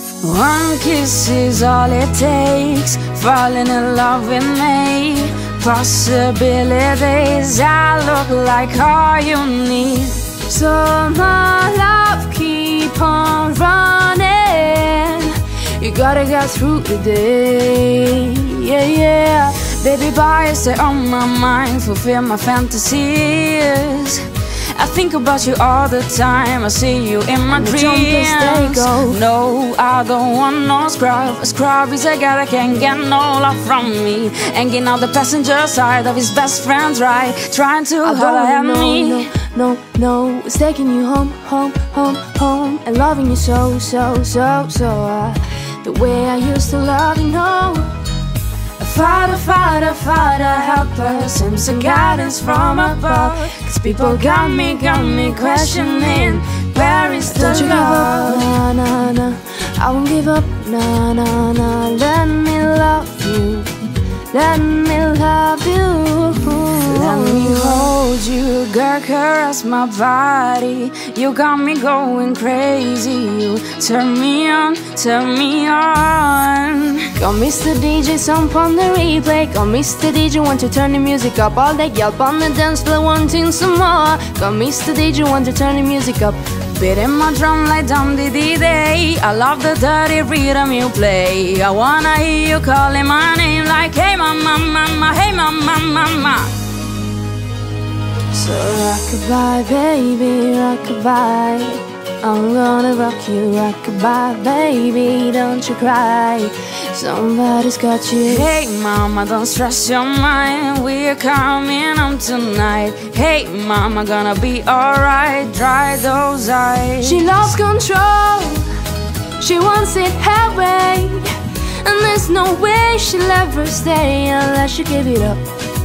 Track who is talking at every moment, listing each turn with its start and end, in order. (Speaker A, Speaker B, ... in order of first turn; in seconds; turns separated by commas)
Speaker A: 0.2-10.2, Speaker B: 10.4-19.7, Speaker A: 19.6-39.3, Speaker B: 27.5-29.2, Speaker B: 38.0-48.0, Speaker A: 48.8-58.5, Speaker B: 52.2-56.4, Speaker B: 57.2-63.8, Speaker B: 64.3-67.9, Speaker A: 66.8-77.1, Speaker B: 77.1-86.4, Speaker A: 86.7-96.5, Speaker B: 98.3-108.5, Speaker A: 108.2-117.3, Speaker B: 117.0-118.7, Speaker B: 119.4-125.4